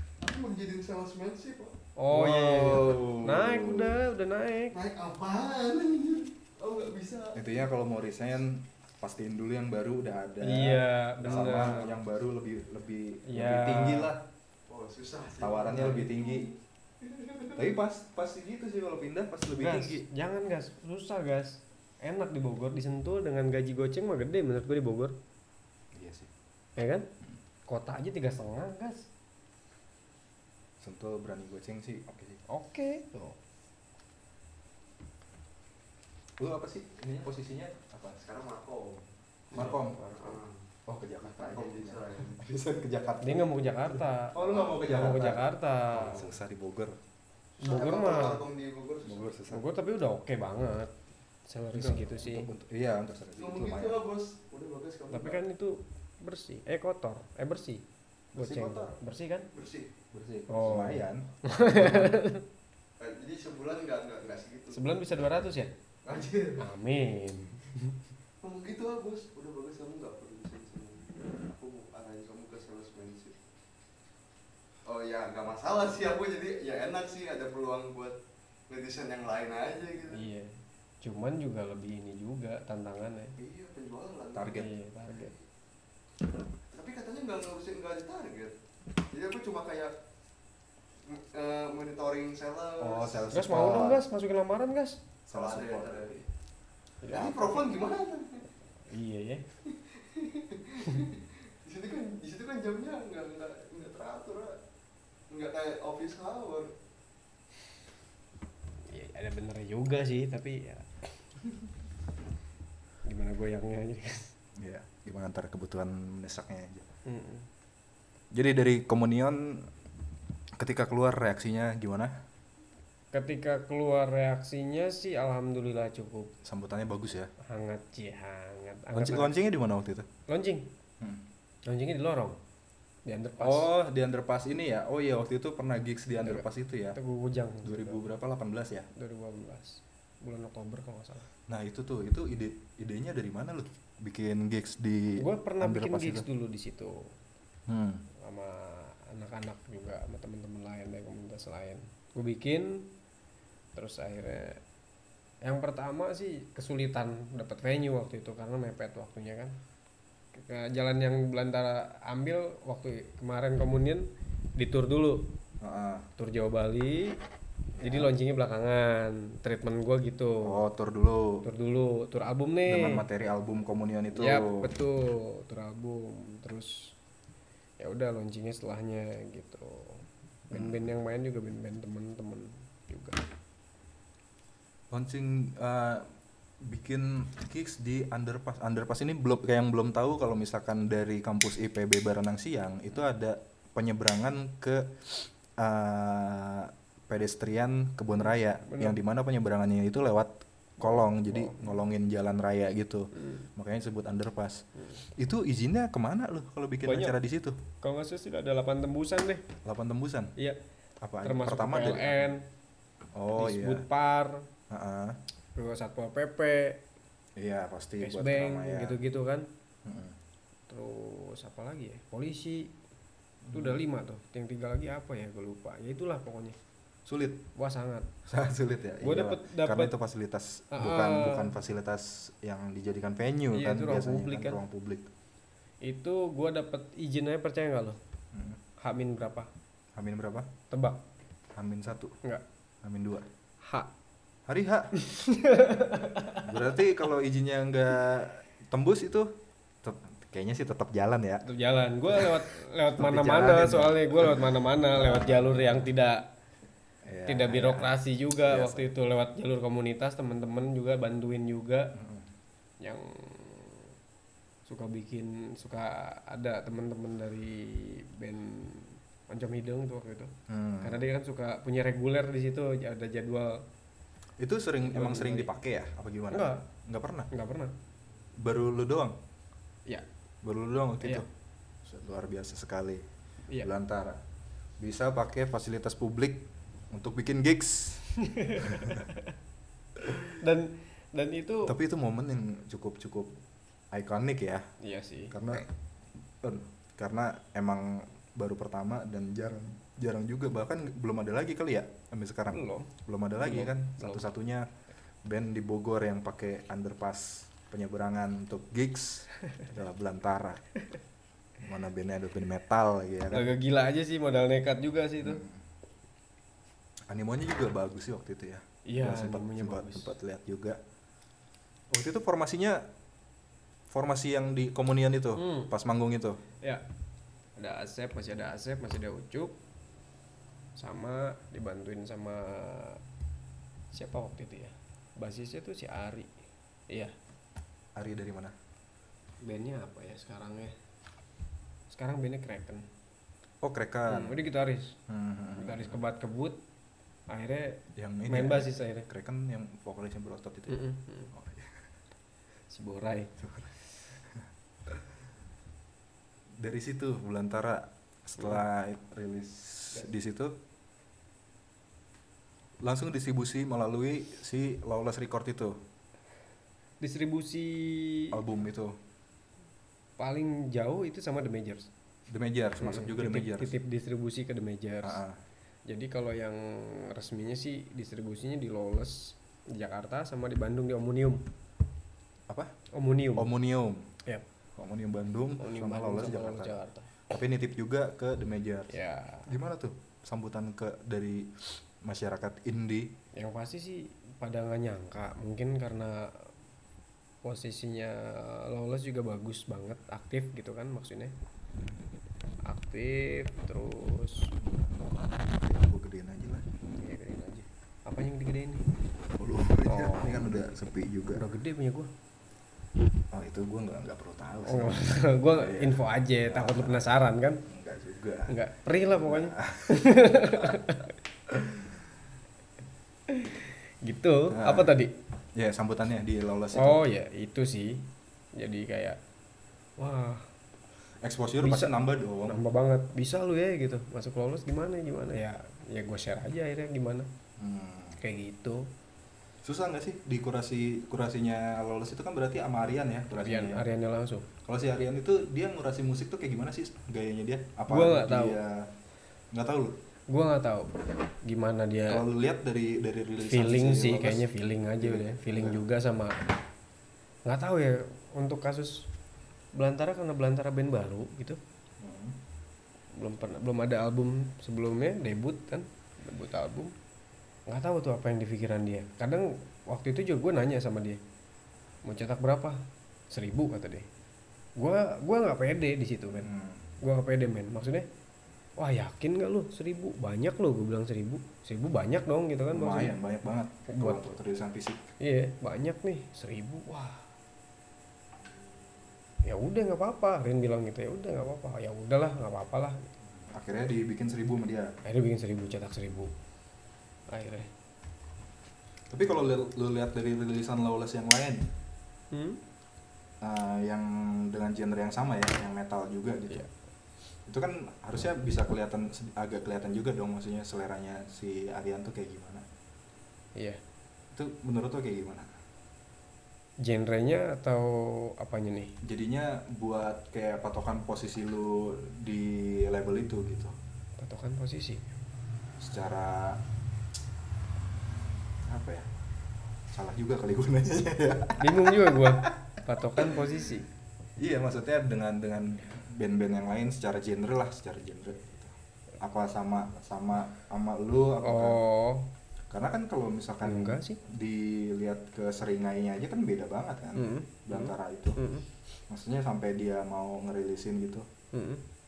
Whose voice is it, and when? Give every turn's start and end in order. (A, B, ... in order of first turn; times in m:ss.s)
0:00.2-0:01.8 A
0:02.0-0:04.7 B
0:02.1-0:04.0 C
0:04.7-0:07.4 A
0:07.3-0:14.2 C
0:10.4-0:11.9 B
0:13.3-0:14.1 B
0:14.7-0:17.6 A
0:15.4-0:16.5 C
0:17.6-0:20.1 C
0:19.5-0:25.2 B
0:25.9-0:26.3 C
0:26.8-0:27.1 B
0:27.7-0:29.1 B
0:30.8-0:32.4 C
0:32.5-0:33.4 B
0:36.4-0:38.2 C
0:38.2-0:40.7 A
0:39.5-0:40.0 C
0:39.6-0:40.2 B
0:40.9-0:47.0 C
0:41.2-0:42.4 A
0:43.2-0:46.3 B
0:44.3-0:45.1 A
0:47.6-0:49.3 A
0:47.6-0:48.4 B
0:49.0-0:49.6 C
0:49.5-0:50.9 B
0:51.5-0:52.5 B
0:51.7-0:54.0 C
0:53.4-0:55.4 A
0:55.1-0:57.8 B
0:58.3-0:59.5 B
0:58.4-0:58.9 C
0:59.5-0:59.9 A
1:00.1-1:02.2 C
1:00.5-1:02.4 B
1:03.0-1:04.9 A
1:04.7-1:05.7 B
1:06.0-1:06.7 A
1:06.6-1:08.0 B
1:08.4-1:13.4 A
1:14.8-1:18.2 A
1:18.7-1:20.3 A
1:20.1-1:23.4 B
1:23.4-1:24.6 A
1:24.3-1:24.7 C
1:24.5-1:25.3 B
1:25.1-1:25.4 A
1:26.7-1:28.6 A
1:29.1-1:29.9 A
1:31.0-1:33.3 A
1:32.8-1:34.0 C
1:33.3-1:35.0 B
1:35.2-1:36.2 C
1:35.3-1:36.2 A
1:37.0-1:37.8 B
1:37.1-1:38.5 A
1:38.9-1:39.5 B
1:39.6-1:44.6 A
1:45.3-1:46.7 A
1:48.9-1:50.9 B
1:53.0-1:54.3 B
1:54.6-1:56.9 C
1:57.0-1:57.4 B
1:58.3-1:59.7 C
2:00.6-2:02.1 C
2:03.1-2:06.3 B
2:06.4-2:07.3 C
2:07.4-2:09.3 B
2:09.0-2:10.1 C
2:10.3-2:10.7 B
2:11.6-2:12.4 B
2:13.0-2:13.7 B
2:13.4-2:17.0 C
2:16.2-2:18.0 B
2:17.6-2:18.9 C
2:18.9-2:21.3 B
2:21.5-2:26.2 C
2:25.2-2:27.1 B
2:27.7-2:28.0 C
2:28.2-2:32.9 B
2:33.7-2:34.6 B
2:35.4-2:39.6 B
2:40.3-2:45.3 B
2:45.6-2:46.1 C
2:46.2-2:47.2 B
2:47.8-2:50.6 B
2:47.8-2:48.1 C
2:50.4-2:51.4 C
2:51.4-2:53.0 B
2:52.6-2:54.7 C
2:54.1-2:56.9 B
2:57.8-3:03.2 B
3:00.5-3:00.9 C
3:04.9-3:06.1 C
3:06.6-3:27.6 C
3:18.6-3:19.0 B
3:20.8-3:21.7 B
3:23.2-3:23.5 B
3:26.8-3:27.1 B
3:27.8-3:29.4 B
3:29.6-3:30.3 C
3:31.0-3:32.3 C
3:31.2-3:32.5 B
3:33.1-3:33.8 C
3:33.3-3:34.5 B
3:34.7-3:35.2 C
3:35.6-3:36.8 B
3:37.4-3:39.0 C
3:38.0-3:39.5 B
3:39.8-3:40.2 C
3:40.7-3:42.7 B
3:43.4-3:43.8 C
3:43.5-3:46.6 B
3:47.0-3:47.4 C
3:47.5-3:48.1 B
3:48.2-3:55.1 C
3:49.0-3:49.9 B
3:50.7-3:51.5 B
3:53.5-3:54.6 B
3:55.8-3:58.0 B
3:58.3-3:58.6 C
3:58.8-3:59.5 B
3:59.9-4:00.5 C
4:00.7-4:01.0 B
4:01.5-4:02.2 C
4:02.8-4:03.3 C
4:03.6-4:03.9 B
4:04.5-4:04.9 C
4:05.0-4:06.6 B
4:06.3-4:09.3 C
4:09.8-4:11.4 C
4:11.4-4:16.3 B
4:12.1-4:15.9 C
4:17.0-4:18.9 C
4:17.3-4:21.9 B
4:21.9-4:22.3 C
4:22.8-4:23.9 B
4:24.6-4:33.6 B
4:30.5-4:31.0 C
4:34.4-4:37.3 C
4:34.8-4:35.5 B
4:36.3-4:36.6 B
4:37.3-4:37.7 B
4:38.4-4:39.2 C
4:40.4-4:41.3 C
4:41.8-4:43.1 C
4:43.6-4:44.2 C
4:44.8-4:49.0 C
4:48.2-4:49.3 B
4:50.4-4:51.7 B
4:51.6-4:53.3 C
4:53.9-4:54.7 C
4:54.8-4:55.3 B
4:55.3-4:55.7 C
4:56.4-5:04.7 C
5:02.5-5:04.3 B
5:05.2-5:10.6 C
5:11.6-5:13.5 C
5:13.3-5:15.4 B
5:15.2-5:15.6 C
5:17.1-5:20.8 C
5:18.8-5:20.1 B
5:21.9-5:22.9 C
5:23.9-5:26.4 C
5:25.4-5:25.7 B
5:27.6-5:29.6 B
5:30.8-5:33.0 B
5:33.9-5:36.3 B
5:37.9-5:38.5 C
5:39.4-5:40.7 B
5:41.9-5:42.9 B
5:43.6-5:44.4 C
5:44.1-5:45.0 B
5:45.1-5:46.0 C
5:45.6-5:46.6 B
5:47.3-5:49.1 B
5:48.0-5:50.8 C
5:50.7-5:51.3 B
5:51.3-5:51.8 C
5:52.7-5:53.4 B
5:53.4-5:53.7 C
5:54.2-5:55.0 C
5:56.6-6:00.6 C
6:02.8-6:05.8 C
6:07.0-6:08.4 B
6:08.3-6:09.0 C
6:10.2-6:11.9 B
6:12.3-6:13.7 C
6:12.8-6:15.2 B
6:15.0-6:15.4 C
6:15.9-6:21.4 B
6:22.9-6:23.5 B
6:23.3-6:24.1 C
6:24.8-6:28.9 C
6:25.6-6:27.1 B
6:28.9-6:29.5 B
6:29.5-6:33.2 C
6:33.3-6:36.5 B
6:37.4-6:41.3 B
6:42.7-6:44.5 B
6:44.6-6:46.7 C
6:46.9-6:48.8 B
6:49.3-6:51.4 C
6:49.8-6:50.6 B
6:51.3-6:52.1 B
6:53.3-6:57.1 C
6:54.6-6:57.6 B
6:57.6-6:58.5 C
6:58.5-7:01.1 B
6:59.1-7:00.7 C
7:01.6-7:02.0 C
7:03.3-7:05.1 B
7:04.5-7:04.9 C
7:05.5-7:07.0 C
7:06.7-7:09.2 B
7:10.0-7:10.4 B
7:11.2-7:12.6 C
7:11.6-7:11.9 B
7:12.4-7:17.3 B
7:17.6-7:18.2 C
7:18.2-7:18.9 B
7:19.6-7:23.8 C
7:23.3-7:24.5 B
7:24.6-7:28.9 C
7:27.9-7:28.6 B
7:29.5-7:30.0 C
7:30.3-7:30.9 B
7:31.4-7:32.2 B
7:32.1-7:34.5 C
7:33.4-7:36.5 B
7:35.0-7:35.8 C
7:37.4-7:39.1 B
7:39.7-7:41.6 B
7:42.0-7:42.4 C
7:43.2-7:46.9 B
7:47.7-7:51.2 B
7:52.0-7:54.1 B
7:54.8-7:56.5 B
7:56.3-7:56.9 C
7:57.0-7:58.1 B
7:58.8-8:03.2 B
8:02.7-8:05.0 C
8:03.9-8:04.4 B
8:05.2-8:07.2 B
8:09.4-8:13.1 B
8:13.4-8:14.9 C
8:15.0-8:16.3 B
8:17.3-8:17.7 B
8:19.1-8:21.6 C
8:22.3-8:22.6 B
8:23.4-8:26.6 C
8:27.4-8:32.6 C
8:33.6-8:33.8 B
8:34.3-8:35.5 C
8:36.8-8:38.9 B
8:39.0-8:43.8 C
8:44.2-8:45.1 B
8:45.8-8:46.6 C
8:48.7-8:49.1 C
8:49.9-8:52.5 C
8:51.6-8:53.9 B
8:53.2-8:53.4 C
8:54.4-9:01.8 C
9:01.4-9:02.3 B
9:02.7-9:08.4 C
9:03.6-9:04.2 B
9:07.1-9:08.6 B
9:09.1-9:11.3 C
9:11.5-9:11.8 B